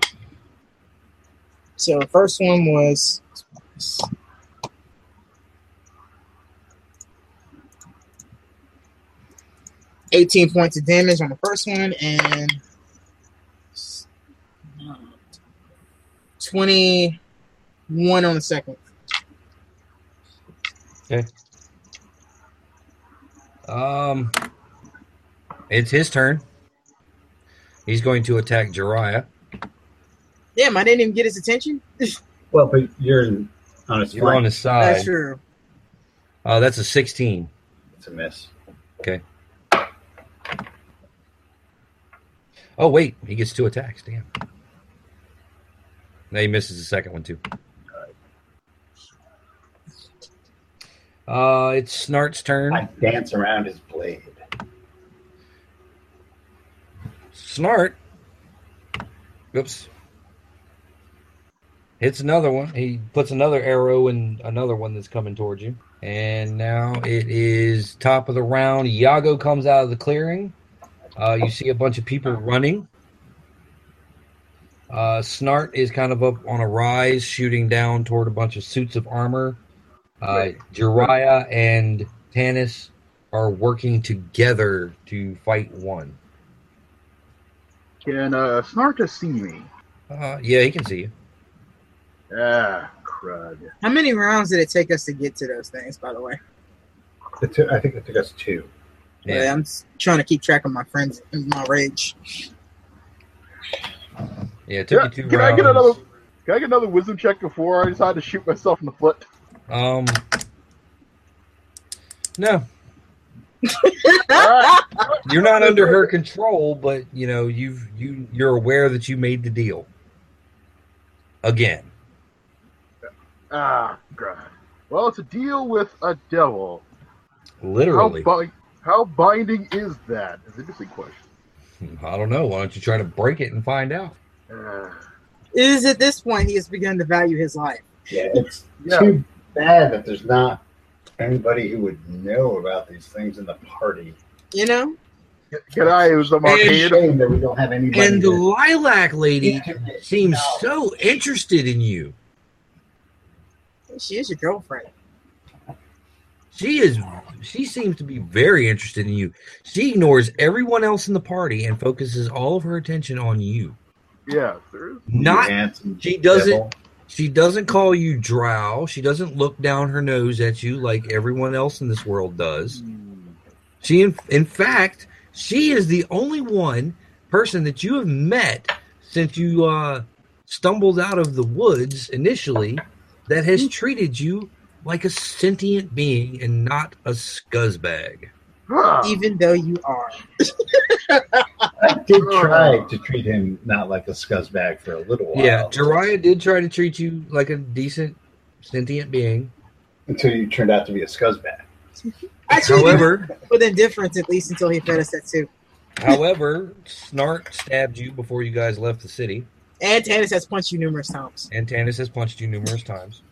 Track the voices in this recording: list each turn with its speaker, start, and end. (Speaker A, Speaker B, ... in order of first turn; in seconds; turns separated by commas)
Speaker A: 1.8-3.2, Speaker A: 3.8-4.1, Speaker A: 10.1-12.6, Speaker A: 13.7-14.1, Speaker A: 14.8-15.1, Speaker A: 16.4-17.2, Speaker A: 17.9-18.8, Speaker B: 23.7-24.3, Speaker B: 25.7-26.4, Speaker B: 27.9-29.3, Speaker A: 30.6-32.2, Speaker C: 32.5-34.4, Speaker B: 34.1-35.1, Speaker A: 34.8-35.4, Speaker B: 36.4-37.5, Speaker C: 38.0-38.5, Speaker B: 42.8-44.3, Speaker B: 46.3-47.4, Speaker B: 51.3-52.9, Speaker C: 52.7-54.4, Speaker B: 57.3-58.0, Speaker B: 59.5-59.9, Speaker B: 62.0-70.5, Speaker B: 71.2-72.9, Speaker B: 74.9-79.6, Speaker B: 80.2-86.2, Speaker D: 80.3-81.1, Speaker D: 88.0-89.7, Speaker B: 90.1-91.1, Speaker D: 92.3-93.7, Speaker A: 93.8-96.4, Speaker C: 97.4-98.7, Speaker B: 99.2-99.5, Speaker A: 99.2-102.4, Speaker B: 104.7-105.9, Speaker D: 104.9-109.3, Speaker B: 109.7-110.2, Speaker B: 112.4-112.7, Speaker A: 113.7-114.9, Speaker D: 114.3-116.1, Speaker B: 115.2-119.9, Speaker B: 121.4-121.9, Speaker D: 123.5-126.8, Speaker B: 127.6-128.3, Speaker D: 127.9-131.2, Speaker B: 131.8-134.2, Speaker D: 134.5-135.0, Speaker A: 135.5-137.9, Speaker C: 138.1-140.6, Speaker D: 138.8-139.1, Speaker C: 141.2-144.2, Speaker A: 144.5-145.0, Speaker D: 145.5-147.0, Speaker B: 146.4-147.0, Speaker C: 146.5-148.4, Speaker B: 147.9-152.1, Speaker C: 149.4-150.7, Speaker A: 153.9-154.9, Speaker B: 156.5-163.8, Speaker D: 164.3-165.1, Speaker B: 165.1-172.8, Speaker C: 165.2-166.7, Speaker D: 172.7-173.4, Speaker B: 173.8-188.3, Speaker D: 188.7-189.2, Speaker A: 189.0-191.7, Speaker C: 191.8-196.1, Speaker D: 192.2-192.9, Speaker B: 195.3-199.5, Speaker C: 200.1-201.7, Speaker A: 202.5-205.5, Speaker B: 202.5-203.3, Speaker C: 202.6-203.1, Speaker B: 206.0-209.5, Speaker A: 209.8-211.5, Speaker B: 211.5-213.2